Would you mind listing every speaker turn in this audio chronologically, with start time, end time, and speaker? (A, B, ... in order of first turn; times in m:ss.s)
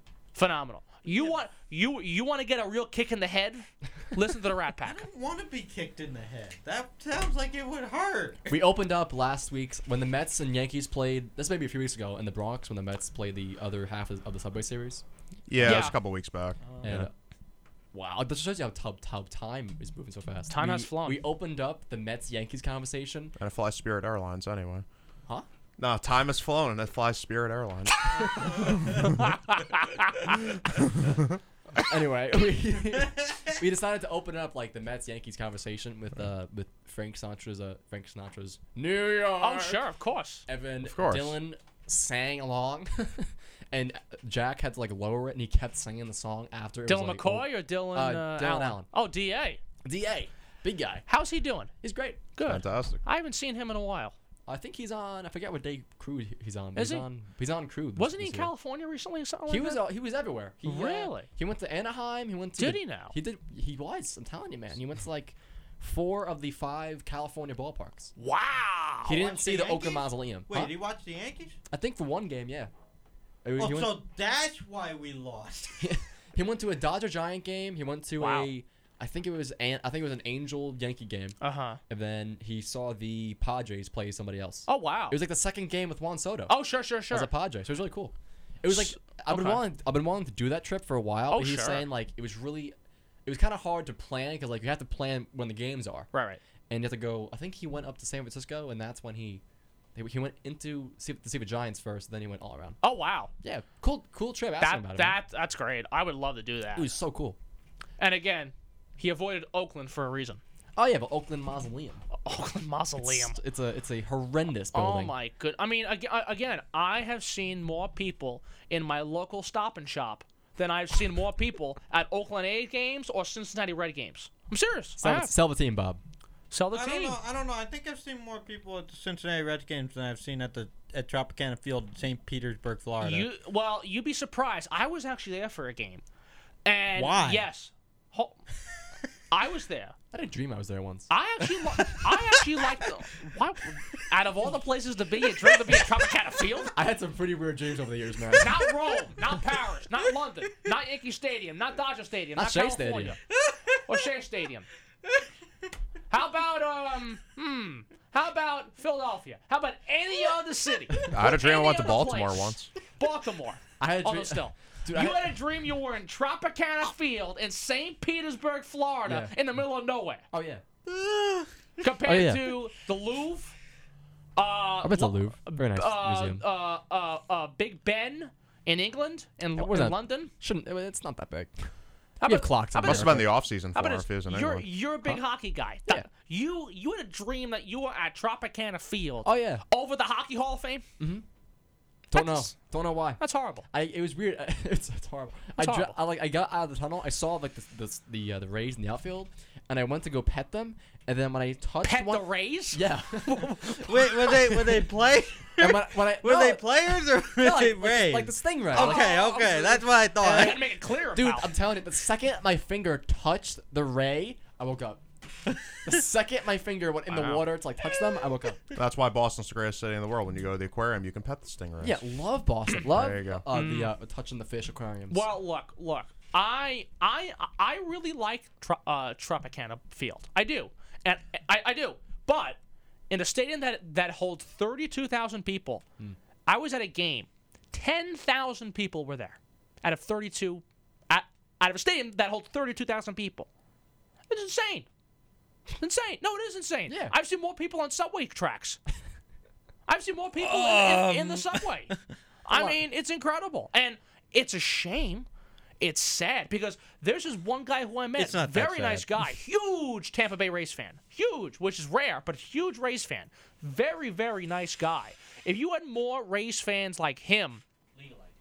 0:00.3-0:05.0 A
0:01.0-0:01.4 B
0:04.8-0:08.5 B
0:08.5-0:15.9 C
0:15.5-0:17.1 D
0:15.6-0:16.0 A
0:16.6-0:17.0 B
0:16.8-0:17.1 C
0:17.9-0:23.3 C
0:20.5-0:21.2 A
0:23.4-0:24.8 D
0:25.8-0:29.0 D
0:28.2-0:29.0 B
0:29.2-0:30.4 A
0:30.7-0:31.3 D
0:31.8-0:39.8 C
0:39.4-0:40.4 A
0:40.5-0:48.9 C
0:40.8-0:41.4 D
0:46.9-0:49.6 A
0:49.8-0:51.0 C
0:51.1-0:51.7 A
0:51.8-0:52.2 C
0:52.3-0:54.1 A
0:52.4-0:53.0 D
0:54.5-0:58.5 C
0:56.8-0:57.0 A
0:58.0-0:59.9 A
0:59.5-1:08.1 C
1:00.6-1:01.3 A
1:02.6-1:03.1 A
1:08.2-1:09.2 A
1:09.0-1:10.8 C
1:09.0-1:11.6 B
1:11.7-1:12.7 C
1:13.4-1:14.0 C
1:13.6-1:16.0 B
1:15.8-1:21.4 C
1:18.2-1:18.5 A
1:21.4-1:21.8 A
1:21.9-1:26.6 C
1:24.7-1:25.2 A
1:26.5-1:27.3 A
1:27.1-1:36.1 C
1:28.7-1:29.7 A
1:31.3-1:31.8 A
1:36.1-1:36.4 A
1:36.7-1:39.4 C
1:39.9-1:42.8 C
1:42.8-1:43.3 A
1:43.4-1:45.2 C
1:44.6-1:46.9 A
1:46.7-1:47.4 C
1:48.0-1:50.4 A
1:50.8-1:52.0 C
1:52.2-1:53.4 A
1:53.0-1:55.1 C
1:54.7-2:05.3 A
2:05.0-2:06.0 C
2:06.5-2:07.2 A
2:06.7-2:13.3 B
2:13.0-2:16.0 A
2:16.6-2:18.4 A
2:16.9-2:17.4 B
2:19.3-2:19.9 A
2:20.1-2:22.3 C
2:21.1-2:26.7 A
2:26.7-2:28.7 C
2:28.3-2:33.2 A
2:32.4-2:33.2 C
2:33.8-2:34.7 A
2:36.1-2:50.2 A
2:40.9-2:41.2 C
2:41.1-2:42.7 D
2:43.8-2:45.4 C
2:49.0-2:49.4 C
2:50.3-2:50.6 C
2:50.9-2:51.5 B
2:51.8-2:53.5 A
2:52.0-2:52.6 C
2:54.4-3:00.3 A
2:54.8-2:56.4 C
2:59.6-3:01.7 C
3:02.2-3:10.8 A
3:02.2-3:03.3 C
3:02.8-3:04.7 D
3:09.2-3:09.6 C
3:11.0-3:11.2 C
3:12.1-3:24.9 C
3:12.1-3:12.5 A
3:13.2-3:13.7 A
3:15.6-3:16.0 A
3:21.8-3:23.9 A
3:23.8-3:30.7 B
3:25.6-3:29.3 C
3:28.7-3:31.6 A
3:30.3-3:30.6 C
3:31.1-3:35.0 C
3:35.8-3:38.6 C
3:37.1-3:37.4 D
3:37.1-3:37.4 A
3:38.7-3:42.0 D
3:41.8-3:45.2 C
3:42.9-3:43.4 D
3:43.5-3:43.9 A
3:45.1-3:52.6 A
3:53.1-3:55.8 A
3:56.4-4:03.5 A
4:04.3-4:04.9 A
4:05.8-4:08.8 A
4:06.9-4:07.1 C
4:09.9-4:15.3 A
4:10.4-4:11.7 B
4:12.5-4:12.8 C
4:15.8-4:27.6 A
4:18.2-4:19.2 B
4:28.0-4:28.3 B